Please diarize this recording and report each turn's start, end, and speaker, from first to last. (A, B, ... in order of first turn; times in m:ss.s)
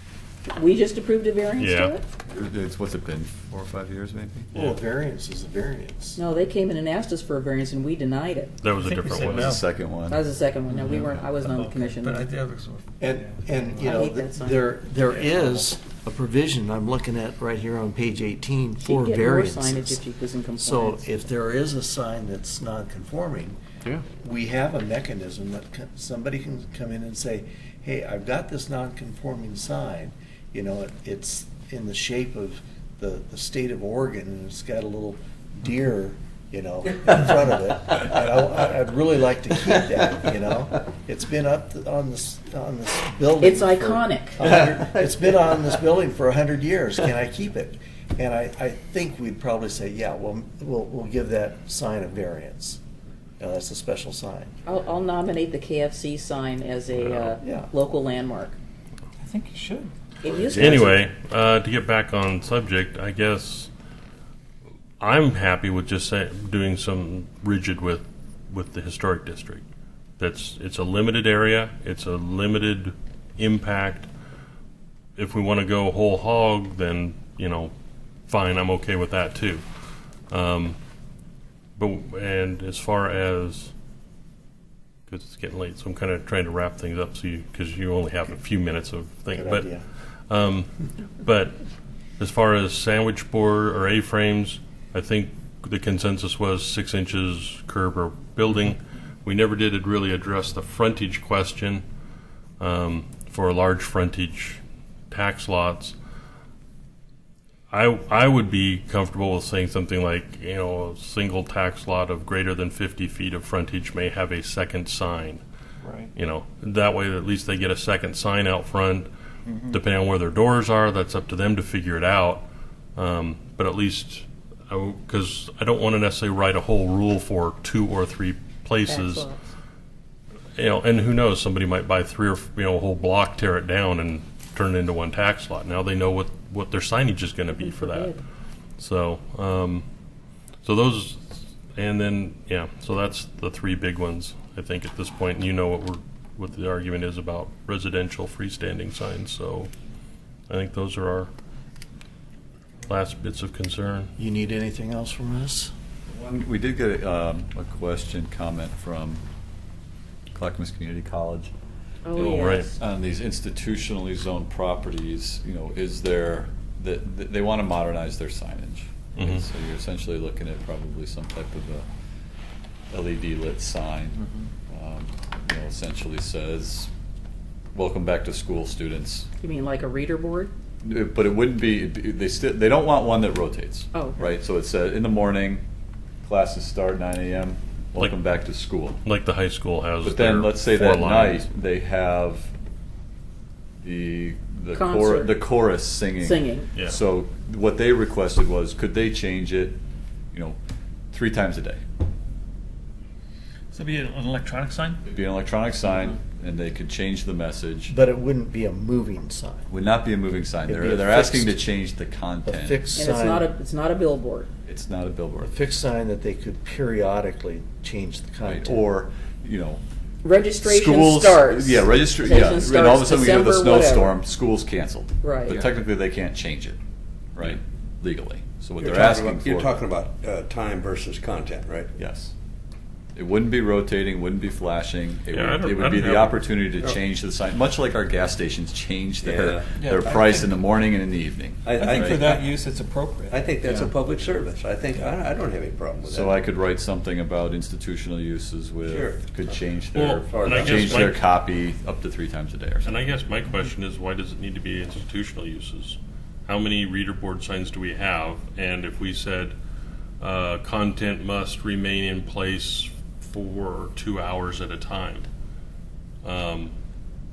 0:00.5-0:02.0 A
0:01.6-0:01.9 B
0:02.3-0:04.5 C
0:04.5-0:06.2 D
0:06.2-0:08.5 A
0:08.6-0:09.6 B
0:09.1-0:10.2 C
0:09.3-0:09.6 E
0:10.1-0:12.3 A
0:10.8-0:13.6 E
0:13.0-0:20.0 D
0:13.8-0:14.7 A
0:15.1-0:15.4 E
0:18.8-0:21.0 A
0:20.6-0:23.6 D
0:24.1-0:52.8 D
0:43.4-0:44.4 A
0:44.4-0:45.8 F
0:53.4-0:54.5 D
0:54.6-0:58.6 A
0:57.0-0:57.3 B
0:57.4-0:57.7 D
0:59.2-0:59.9 E
1:00.2-1:00.8 A
1:00.5-1:03.7 B
1:05.0-1:09.6 B
1:10.2-1:14.1 B
1:15.2-1:17.7 B
1:18.3-1:19.6 B
1:20.3-1:20.8 B
1:21.8-1:23.7 B
1:25.1-1:29.7 B
1:29.3-1:29.8 D
1:30.3-1:31.6 B
1:32.2-1:41.8 B
1:42.6-1:45.9 B
1:47.7-1:55.4 B
1:55.8-1:56.1 E
1:56.2-1:59.1 B
1:59.5-1:59.8 E
1:59.7-2:09.3 B
2:08.8-2:09.5 A
2:10.6-2:18.2 B
2:17.5-2:18.2 A
2:18.8-2:19.8 B
2:20.6-2:29.7 B
2:30.5-2:31.3 B
2:32.9-2:34.1 B
2:34.2-2:35.7 D
2:36.1-2:39.2 C
2:40.3-2:41.5 C
2:42.0-2:42.7 A
2:42.1-2:42.7 B
2:42.2-2:51.8 C
2:49.2-2:49.4 B
2:52.9-2:56.9 C
2:57.7-2:59.3 C
2:59.4-3:00.5 A
3:00.8-3:05.6 C
3:03.9-3:04.3 A
3:06.2-3:09.0 C
3:09.0-3:11.5 B
3:10.0-3:12.5 C
3:13.8-3:19.8 C
3:14.7-3:15.4 A
3:16.2-3:16.7 A
3:20.3-3:20.6 C
3:21.1-3:21.8 C
3:23.7-3:25.0 E
3:25.0-3:27.9 C
3:27.9-3:29.7 D
3:29.7-3:32.8 C
3:30.6-3:31.6 D
3:32.4-3:33.5 D
3:32.9-3:34.5 A
3:34.6-3:35.6 C
3:35.4-3:38.9 D
3:38.4-3:39.8 C
3:40.2-3:44.2 A
3:40.6-3:46.8 C
3:45.2-3:45.6 A
3:47.3-3:49.8 C
3:48.8-3:51.9 F
3:52.0-3:52.3 C
3:53.1-4:02.3 C
3:55.3-3:56.5 B
3:59.2-4:00.4 F
3:59.7-4:00.4 E
4:01.6-4:02.6 F
4:01.7-4:03.9 E
4:03.3-4:06.5 F
4:06.1-4:13.0 C
4:08.8-4:09.2 F
4:09.9-4:11.2 B
4:10.3-4:11.2 F
4:12.8-4:19.5 B
4:20.2-4:25.3 B
4:26.2-4:26.7 B